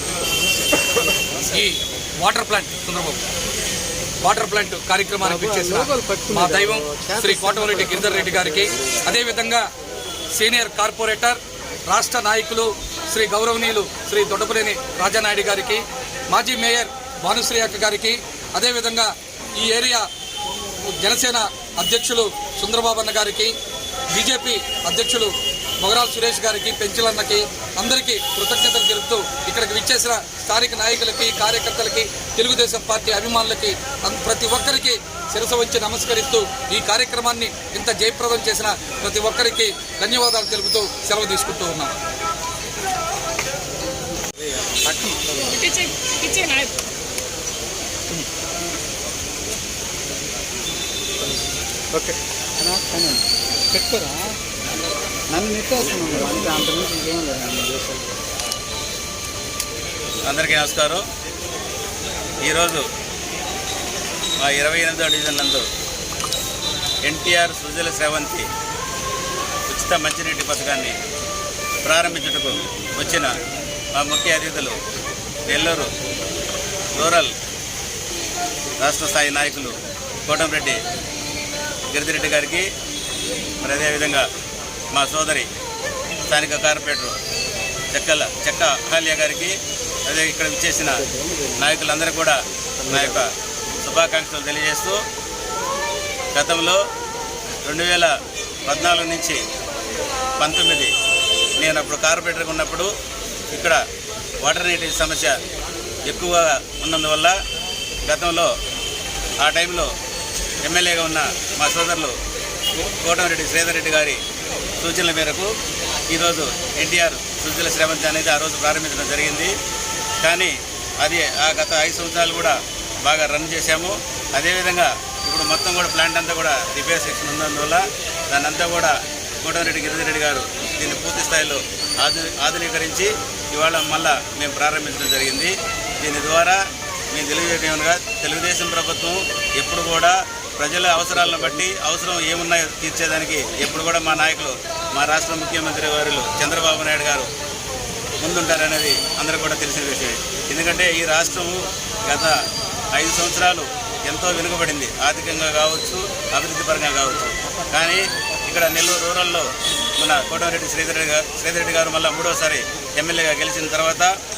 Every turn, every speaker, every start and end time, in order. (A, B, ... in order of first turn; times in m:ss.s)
0:01.4-0:03.2 A
0:04.2-0:09.6 A
0:05.2-0:08.6 B
0:10.3-0:20.0 A
0:20.8-0:23.5 A
0:24.1-0:41.9 A
0:44.4-0:45.5 B
0:45.5-0:46.7 A
0:51.9-0:54.4 B
0:55.3-0:58.1 B
1:00.2-1:01.0 C
1:02.4-1:02.8 C
1:04.4-1:05.7 C
1:07.0-1:08.5 C
1:09.7-1:11.0 C
1:11.8-1:13.3 C
1:13.9-1:14.8 C
1:15.5-1:15.9 C
1:16.9-1:17.3 C
1:18.8-1:20.8 C
1:21.9-1:22.7 C
1:23.6-1:24.3 C
1:24.9-1:25.5 C
1:26.3-1:27.2 C
1:27.9-1:31.0 C
1:31.6-1:35.0 C
1:36.3-1:36.8 C
1:37.6-1:38.1 C
1:38.7-1:39.4 C
1:40.4-1:40.9 C
1:41.6-1:42.9 C
1:43.5-1:43.8 C
1:44.4-1:45.4 C
1:46.1-1:47.4 C
1:48.1-1:48.5 C
1:49.4-1:49.9 C
1:50.6-1:52.2 C
1:53.0-1:54.2 C
1:54.8-1:55.5 C
1:56.1-1:59.5 C
2:00.2-2:16.6 C
2:17.1-2:27.3 C
2:28.2-2:32.4 C
2:32.9-2:44.1 C